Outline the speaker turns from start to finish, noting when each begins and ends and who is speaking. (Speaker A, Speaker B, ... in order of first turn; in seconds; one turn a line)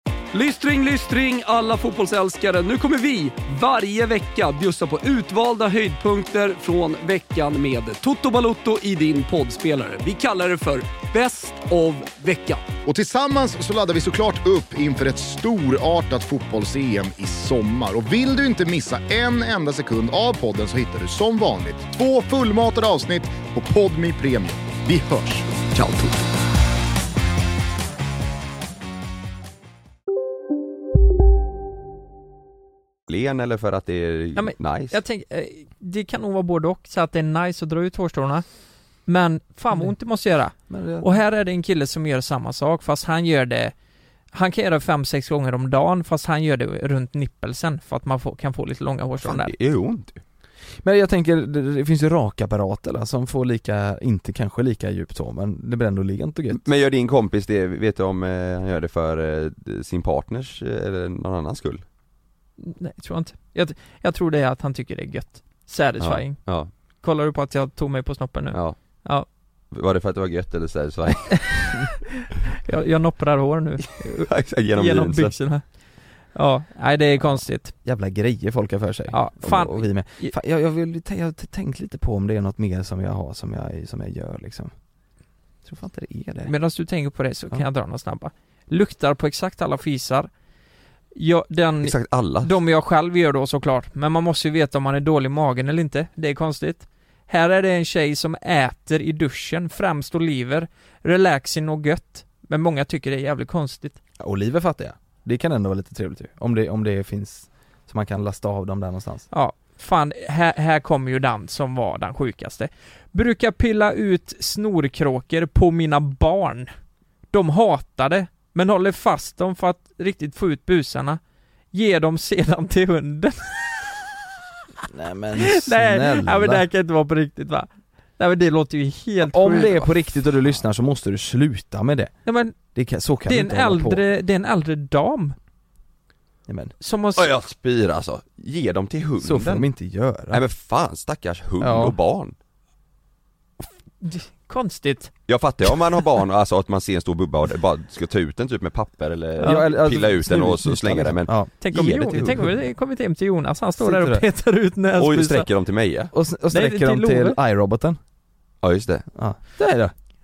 Speaker A: 0.3-12.7
Speaker B: 12.8-25.5
Speaker C: 25.8-26.1
Speaker C: 33.1-35.0
Speaker D: 34.4-38.4
Speaker D: 39.0-43.7
Speaker E: 40.7-41.1
Speaker D: 44.3-49.5
Speaker C: 49.2-50.2
Speaker E: 50.8-56.6
Speaker C: 56.5-61.8
Speaker D: 62.6-66.4
Speaker C: 66.0-66.7
Speaker D: 67.0-69.2
Speaker C: 69.7-71.8
Speaker D: 71.7-75.6
Speaker C: 74.2-75.4
Speaker D: 76.3-77.7
Speaker E: 77.8-84.7
Speaker D: 79.1-80.3
Speaker E: 85.6-86.5
Speaker D: 86.4-90.3
Speaker D: 91.1-104.0
Speaker C: 91.8-92.5
Speaker E: 104.2-109.3
Speaker D: 109.3-116.7
Speaker D: 117.3-121.2
Speaker D: 121.7-123.8
Speaker E: 124.9-126.7
Speaker D: 125.4-129.8
Speaker E: 129.2-132.1
Speaker D: 132.2-132.6
Speaker E: 132.6-134.0
Speaker D: 133.2-135.3
Speaker E: 136.5-136.7
Speaker D: 136.8-137.4
Speaker C: 137.2-139.7
Speaker E: 139.2-140.4
Speaker C: 140.3-142.3
Speaker E: 141.6-141.9
Speaker D: 144.0-145.1
Speaker C: 145.3-152.5
Speaker E: 149.4-151.5
Speaker D: 151.6-155.5
Speaker E: 153.8-154.2
Speaker C: 155.0-156.1
Speaker E: 156.1-158.0
Speaker D: 156.5-157.4
Speaker C: 158.6-159.1
Speaker E: 159.1-159.9